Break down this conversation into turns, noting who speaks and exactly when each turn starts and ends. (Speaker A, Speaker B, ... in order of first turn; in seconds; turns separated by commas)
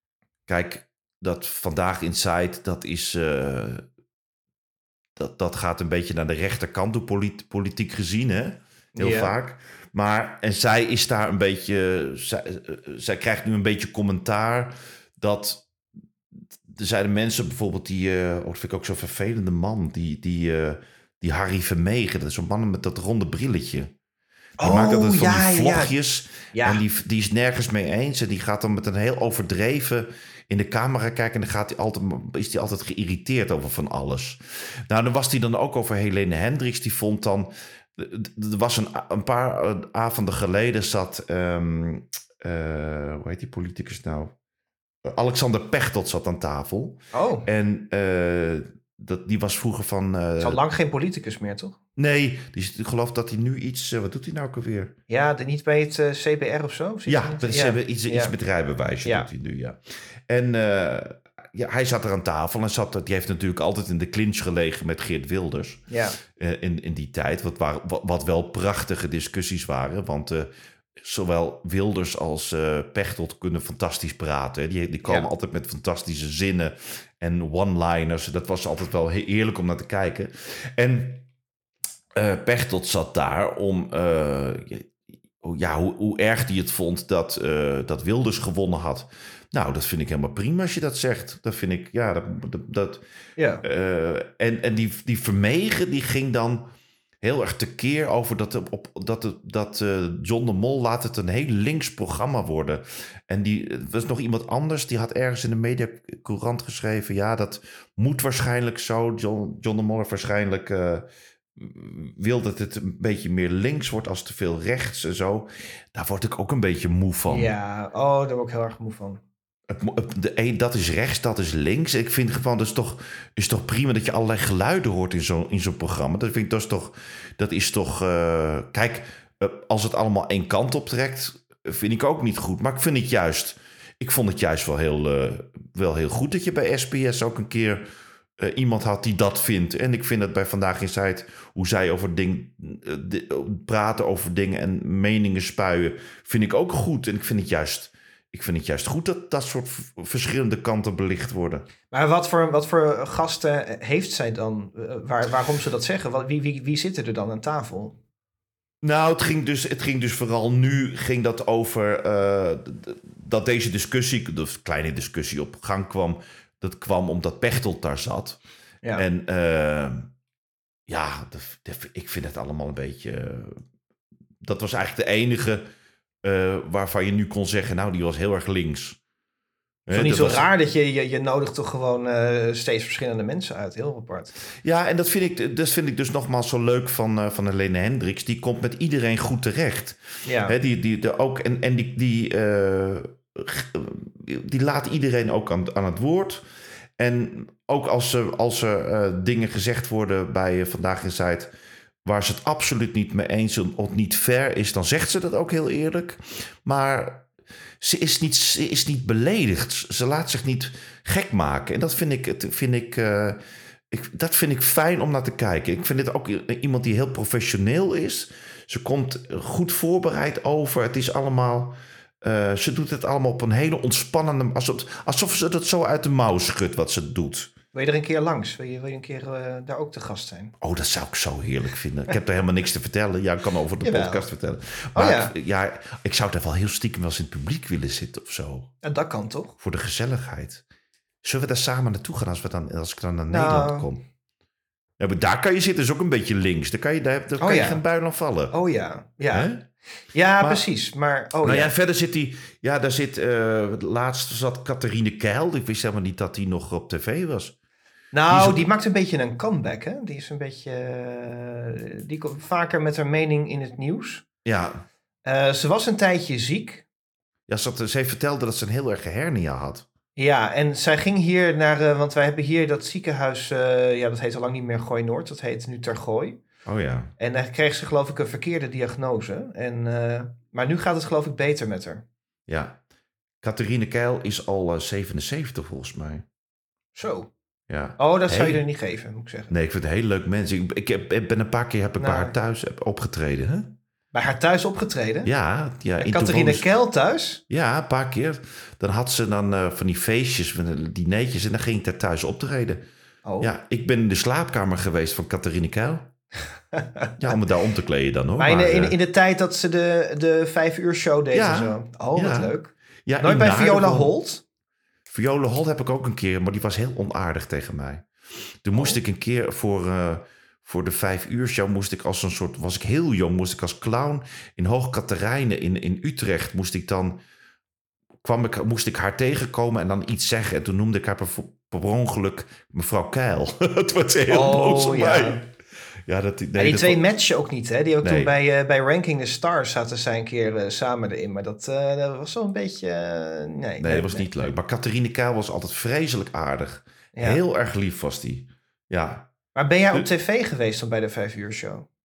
Speaker A: 0.5-3.9, Speaker A: 5.2-15.7, Speaker B: 9.0-9.3, Speaker A: 16.3-23.9, Speaker B: 24.6-25.9, Speaker A: 24.6-44.3, Speaker B: 26.5-26.8, Speaker A: 45.0-50.6, Speaker B: 47.1-47.5, Speaker B: 50.4-51.8, Speaker A: 52.0-55.0, Speaker B: 55.1-58.3, Speaker A: 57.1-81.3, Speaker B: 65.9-66.2, Speaker A: 82.2-93.0, Speaker B: 93.4-93.6, Speaker A: 93.6-96.7, Speaker A: 97.2-117.5, Speaker B: 117.3-119.2, Speaker A: 119.7-151.7, Speaker B: 151.9-158.0, Speaker A: 158.8-168.4, Speaker A: 168.9-170.1, Speaker A: 170.9-173.6, Speaker A: 174.4-175.7, Speaker A: 176.2-179.0, Speaker A: 179.9-180.5, Speaker B: 179.9-184.3, Speaker A: 184.6-196.4, Speaker B: 190.2-190.6, Speaker A: 197.0-201.5, Speaker A: 202.1-207.3, Speaker A: 207.8-213.4, Speaker A: 213.9-227.5, Speaker B: 227.7-230.5, Speaker A: 230.6-238.7, Speaker B: 233.8-234.3, Speaker B: 234.9-235.3, Speaker B: 238.8-239.6, Speaker A: 239.6-240.6, Speaker A: 241.2-244.0, Speaker B: 243.3-243.9, Speaker A: 245.0-248.6, Speaker B: 247.4-247.8, Speaker B: 248.5-249.5, Speaker A: 249.3-249.7, Speaker B: 250.1-251.7, Speaker A: 250.4-250.7, Speaker A: 251.4-257.6, Speaker B: 258.1-264.2, Speaker A: 258.3-258.7, Speaker A: 264.4-264.9, Speaker B: 265.2-266.9, Speaker A: 267.5-269.9, Speaker B: 270.2-276.4, Speaker A: 276.6-277.1, Speaker B: 277.2-282.0, Speaker A: 282.5-282.8, Speaker A: 283.4-286.2, Speaker B: 286.9-287.3, Speaker A: 287.7-288.6, Speaker B: 288.0-289.5, Speaker A: 289.5-293.8, Speaker B: 292.0-292.3, Speaker B: 294.1-295.3, Speaker A: 295.2-296.7, Speaker B: 296.0-297.4, Speaker A: 297.5-302.8, Speaker B: 303.2-303.5, Speaker A: 303.4-306.1, Speaker B: 306.7-307.1, Speaker A: 307.2-309.0, Speaker B: 308.4-314.4, Speaker A: 311.3-314.1, Speaker A: 315.1-318.1, Speaker A: 318.6-327.2, Speaker A: 328.2-335.5, Speaker B: 334.3-335.4, Speaker A: 336.1-337.0, Speaker B: 336.6-344.5, Speaker A: 338.0-338.3, Speaker A: 343.8-349.3, Speaker B: 347.1-347.4, Speaker B: 349.6-351.9